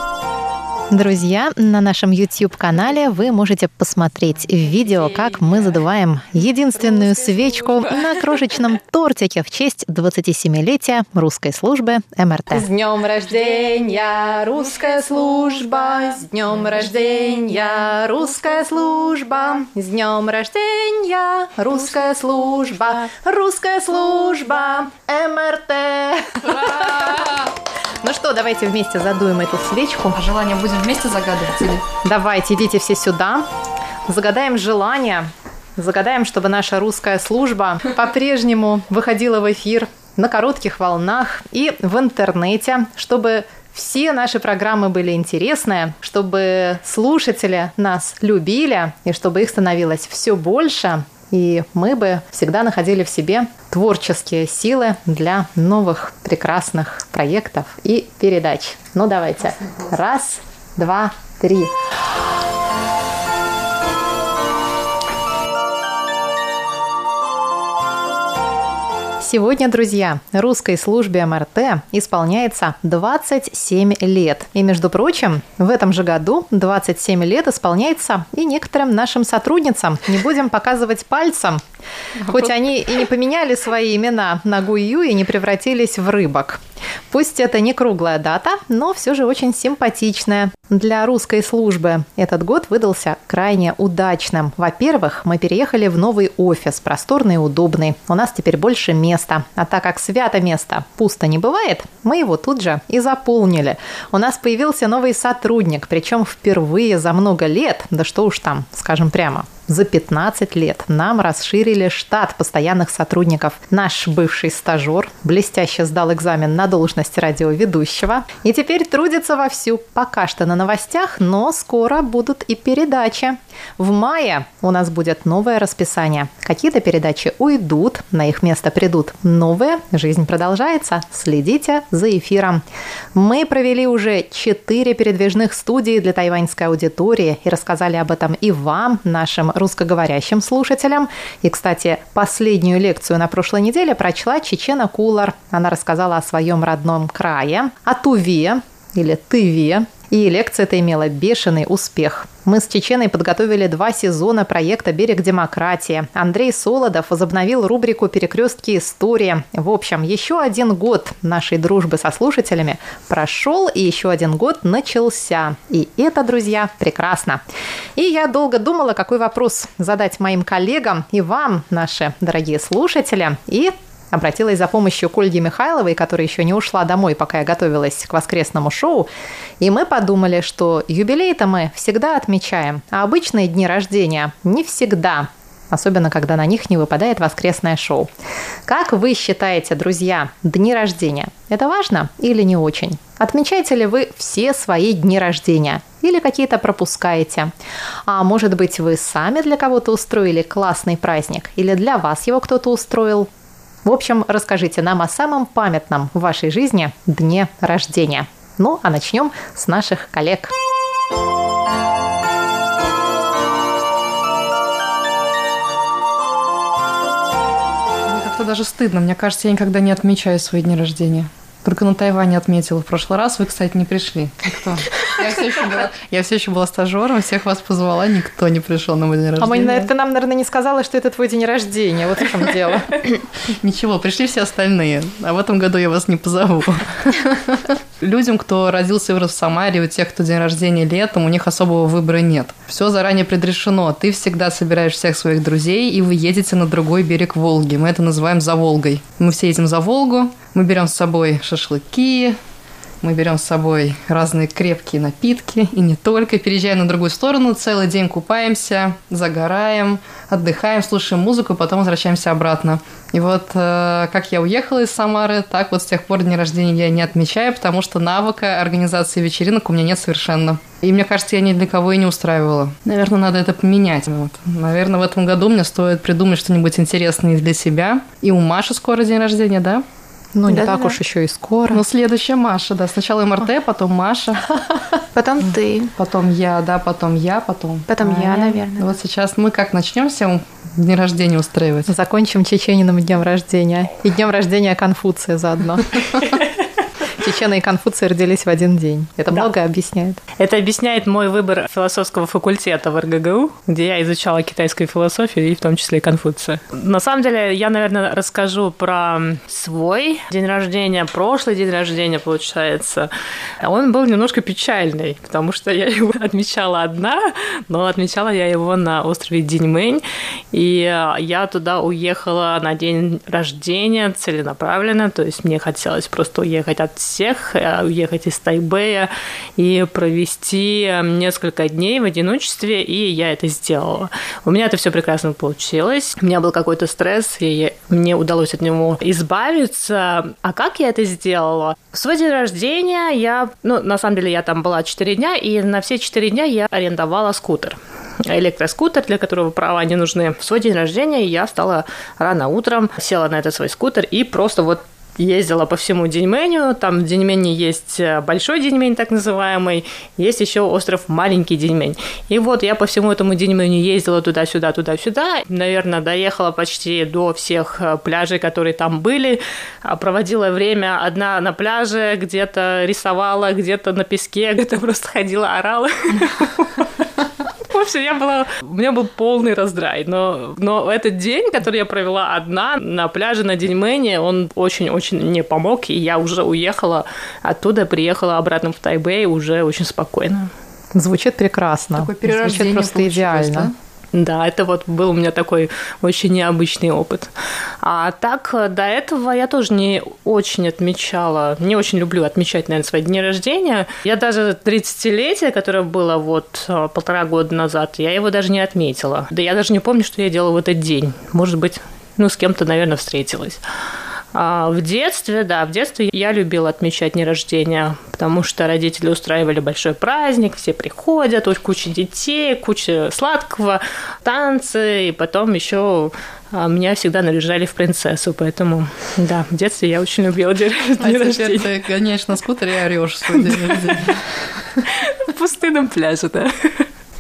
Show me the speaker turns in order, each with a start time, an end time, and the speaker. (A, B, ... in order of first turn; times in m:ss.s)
0:00.9-0:27.4 A
0:26.6-0:27.3 B
0:28.0-0:30.2 A
0:30.2-0:31.8 B
0:32.0-0:33.5 A
0:34.1-1:01.7 A
1:09.2-1:21.6 A
1:22.2-1:22.5 B
1:22.3-2:47.4 A
2:48.0-3:08.1 A
3:08.7-3:17.5 A
3:18.1-3:23.3 A
3:23.8-3:30.5 A
3:38.1-3:49.9 B
3:49.4-3:53.0 A
3:53.5-4:12.4 B
4:13.0-4:39.8 B
4:40.3-4:41.8 A
4:40.5-4:41.0 C
4:41.7-4:44.6 B
4:45.2-4:45.9 C
4:46.0-4:51.9 B
4:47.9-4:48.9 C
4:51.9-4:56.1 A
4:57.2-5:00.2 A
5:00.4-6:17.0 D
6:17.7-6:30.5 D
6:30.9-6:33.7 A
6:32.0-6:33.8 B
6:34.1-6:53.6 D
6:54.3-7:11.7 D
7:11.0-7:14.2 B
7:13.4-7:13.8 D
7:15.0-7:16.9 D